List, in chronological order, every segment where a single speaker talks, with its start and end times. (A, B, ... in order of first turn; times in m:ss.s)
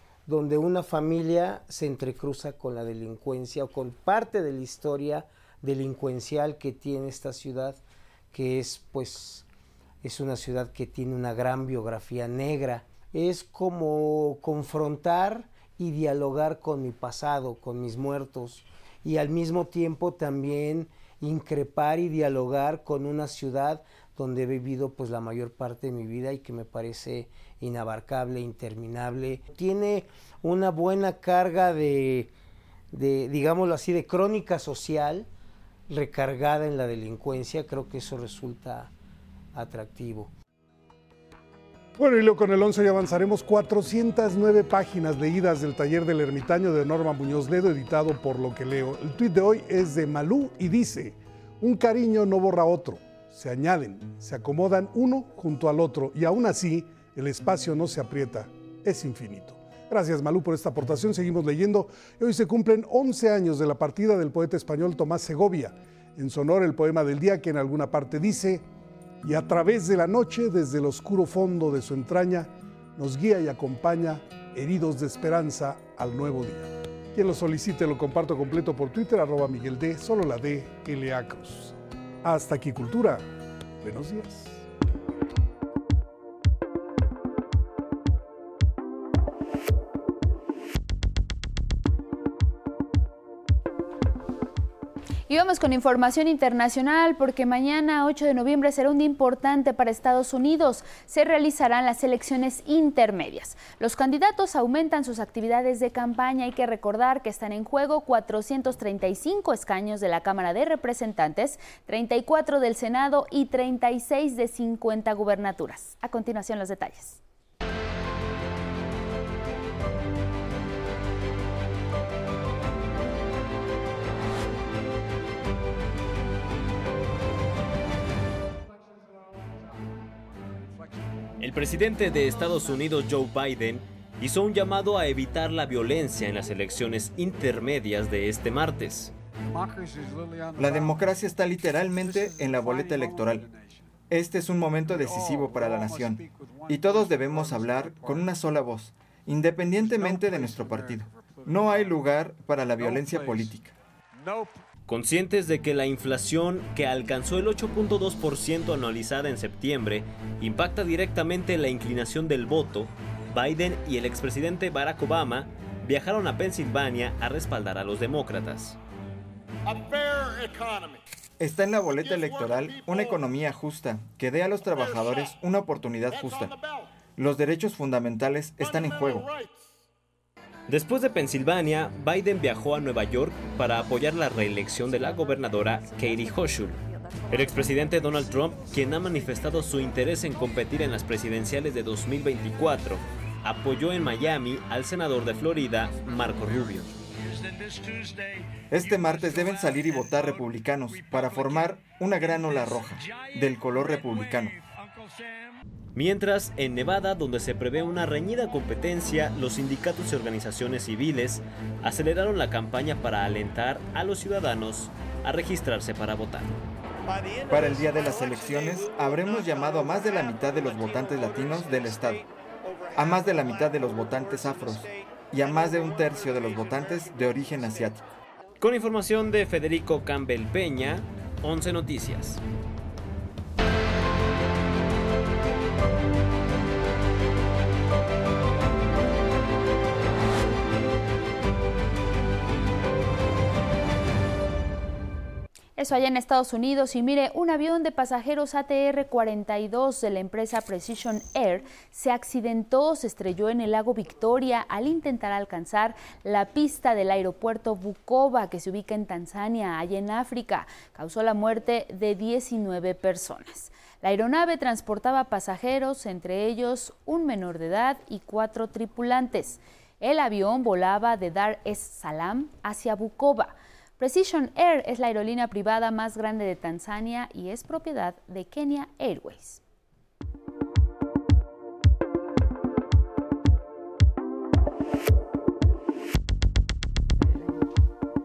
0:00.3-0:07.8 A
0:08.3-0:09.4 A
0:10.0-0:32.3 A
0:32.9-0:35.3 A
0:35.9-0:38.9 A
0:39.5-0:40.3 A
0:42.0-1:08.6 B
1:09.2-1:23.2 B
1:23.8-1:24.6 B
1:35.3-1:57.2 C
2:11.4-2:19.1 D
2:20.6-2:23.5 E
2:24.1-2:33.7 E
2:34.9-2:48.8 D
2:51.4-2:56.5 E
2:57.2-2:59.3 E
3:00.7-3:16.9 D
3:18.7-3:24.6 E
3:25.9-3:36.5 D
3:37.5-3:42.2 E
3:43.0-3:48.0 E
3:48.6-3:52.4 D
4:05.8-4:39.6 C